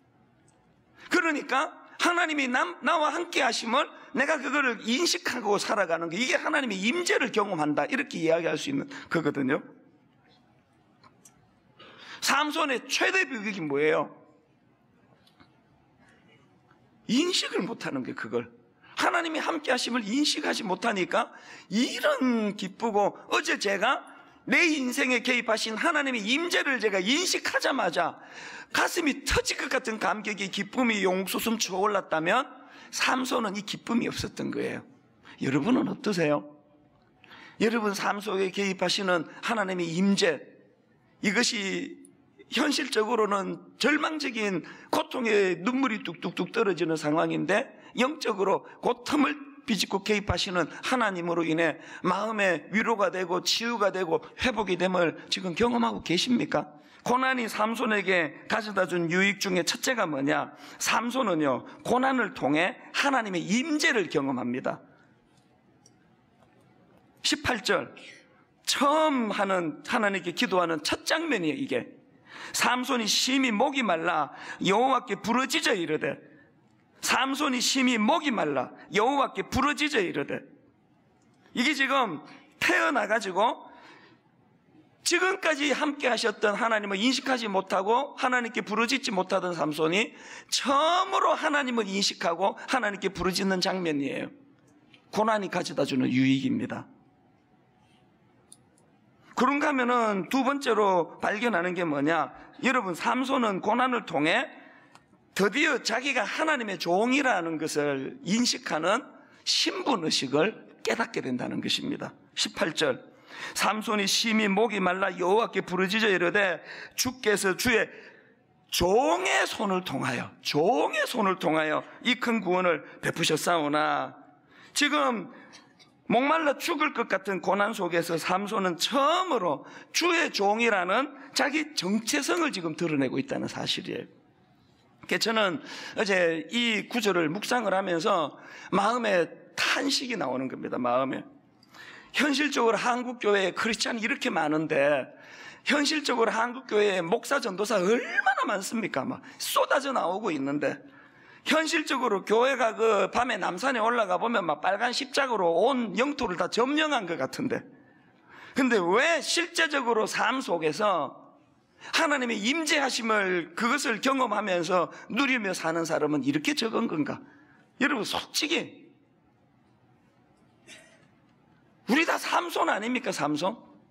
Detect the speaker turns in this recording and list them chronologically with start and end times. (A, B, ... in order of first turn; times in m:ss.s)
0:01.1-0:09.6 A
0:12.2-0:14.2 A
0:17.1-0:28.2 A
0:28.7-0:34.8 A
0:35.4-0:36.5 A
0:37.6-0:40.5 A
0:41.2-0:42.0 A
0:42.5-1:04.8 A
1:07.2-1:08.0 A
1:08.6-1:11.9 A
1:12.5-1:16.2 A
1:17.0-1:20.4 A
1:21.5-1:23.7 A
1:25.0-1:34.3 A
1:35.1-1:36.9 A
1:39.4-1:44.5 A
1:45.4-1:57.9 A
1:58.7-2:04.2 A
2:04.7-2:05.3 A
2:06.1-2:14.1 A
2:15.0-2:21.3 A
2:22.1-2:25.1 A
2:25.7-2:30.8 A
2:31.5-2:37.6 A
2:38.6-2:41.3 A
2:41.9-2:47.2 A
2:47.8-2:48.9 A
2:51.9-2:53.7 A